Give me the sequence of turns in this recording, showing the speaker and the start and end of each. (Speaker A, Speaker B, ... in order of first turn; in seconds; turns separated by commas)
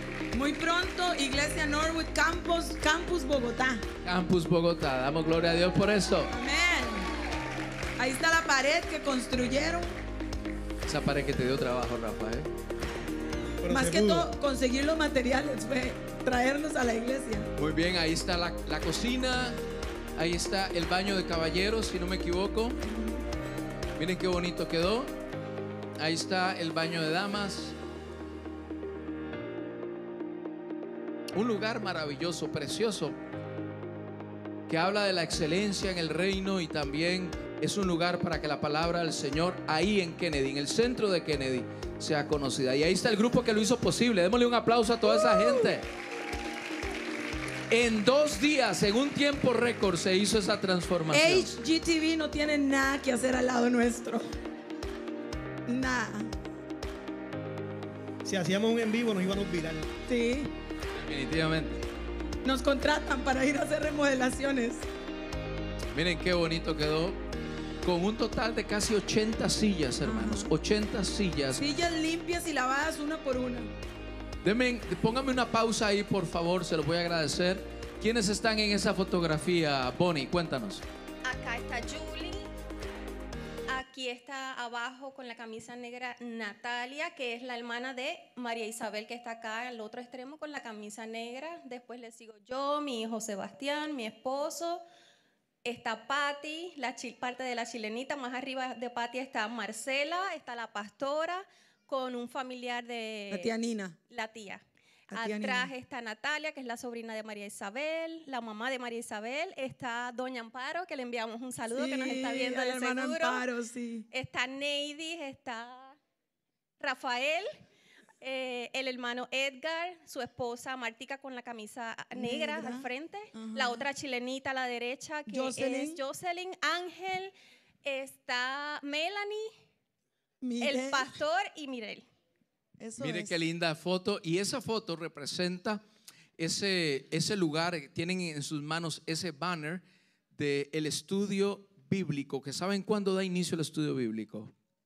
Speaker A: 0.3-3.9, Speaker B: 4.0-6.3, Speaker A: 6.3-7.1, Speaker A: 8.0-9.9, Speaker B: 10.9-12.5, Speaker C: 13.6-14.3, Speaker A: 13.7-17.5, Speaker B: 17.6-19.6, Speaker B: 20.2-22.8, Speaker A: 22.8-23.2, Speaker B: 24.0-25.1, Speaker B: 26.0-27.8, Speaker B: 31.3-33.2, Speaker B: 34.7-45.9, Speaker B: 47.7-51.5, Speaker A: 51.1-54.3, Speaker A: 55.7-56.3, Speaker C: 58.2-59.9, Speaker A: 60.1-60.5, Speaker B: 60.9-61.8, Speaker A: 62.5-64.9, Speaker B: 65.9-67.2, Speaker B: 67.8-71.6, Speaker A: 70.0-70.5, Speaker A: 71.6-73.7, Speaker B: 74.4-80.8, Speaker D: 81.2-82.5, Speaker D: 83.7-94.8, Speaker D: 95.6-103.5, Speaker A: 103.3-104.0, Speaker D: 104.1-113.5, Speaker A: 105.1-105.7, Speaker A: 111.7-114.0, Speaker D: 114.1-116.0, Speaker D: 116.8-117.6, Speaker D: 118.2-129.5, Speaker A: 122.2-123.8, Speaker A: 125.3-126.0, Speaker A: 130.4-131.2, Speaker D: 130.6-132.1, Speaker A: 132.8-133.4, Speaker B: 133.0-135.8, Speaker B: 136.4-139.8, Speaker B: 140.3-144.5